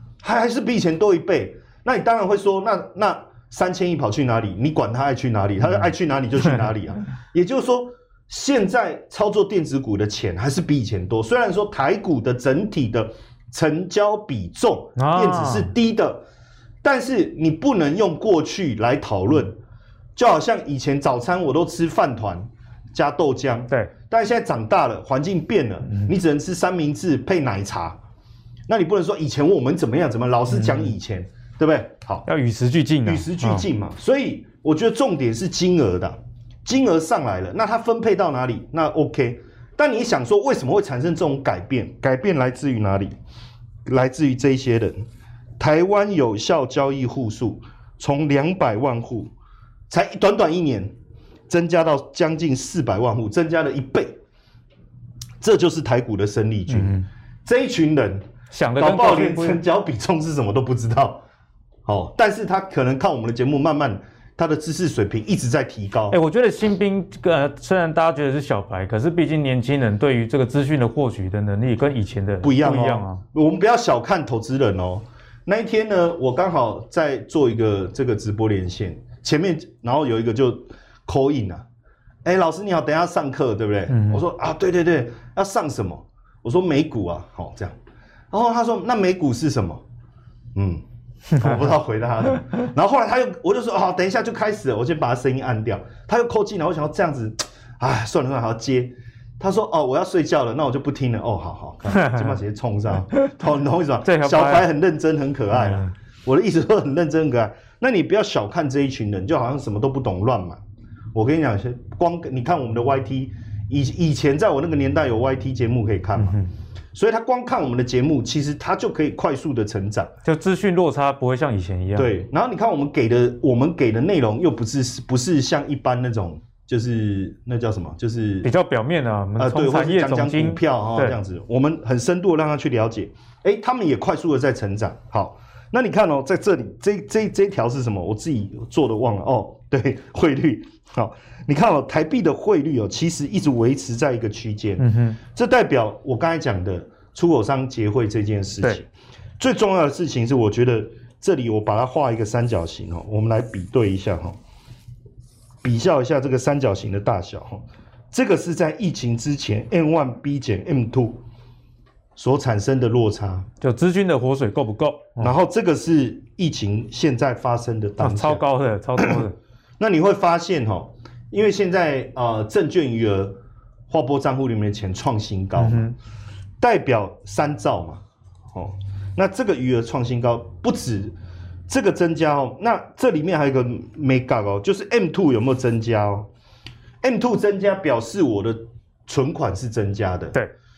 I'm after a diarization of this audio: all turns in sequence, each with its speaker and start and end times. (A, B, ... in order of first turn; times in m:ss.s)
0:00.2-0:16.2 A
0:15.0-0:15.7 B
0:16.8-0:19.6 A
0:20.2-0:28.0 A
0:28.7-0:32.3 A
0:30.6-0:30.9 B
0:32.2-0:33.6 B
0:33.0-0:43.2 A
0:43.8-0:45.0 A
0:45.6-0:49.3 A
0:49.9-0:50.9 A
0:51.5-0:54.2 A
0:55.4-0:58.2 A
0:56.7-0:57.0 B
0:58.5-0:59.6 B
0:58.8-1:01.2 A
1:01.8-1:06.2 A
1:06.1-1:13.2 B
1:12.4-1:21.6 A
1:22.2-1:27.8 A
1:23.9-1:24.2 B
1:28.3-1:29.8 A
1:30.5-1:50.6 A
1:44.0-1:44.6 B
1:51.1-1:56.4 A
1:56.2-1:56.4 B
1:56.9-2:00.1 A
2:00.2-2:02.1 B
2:02.0-2:08.5 A
2:08.4-2:11.2 B
2:09.4-2:34.4 A
2:24.8-2:25.2 B
2:35.6-2:41.2 A
2:42.2-2:43.5 A
2:43.6-2:45.3 B
2:45.2-2:48.4 A
2:48.0-2:49.3 B
2:49.0-2:49.2 A
2:49.8-2:53.4 A
2:53.9-2:55.9 A
2:55.6-2:55.9 B
2:56.6-2:58.0 A
2:58.5-3:01.1 A
3:01.7-3:06.3 A
3:07.0-3:10.4 A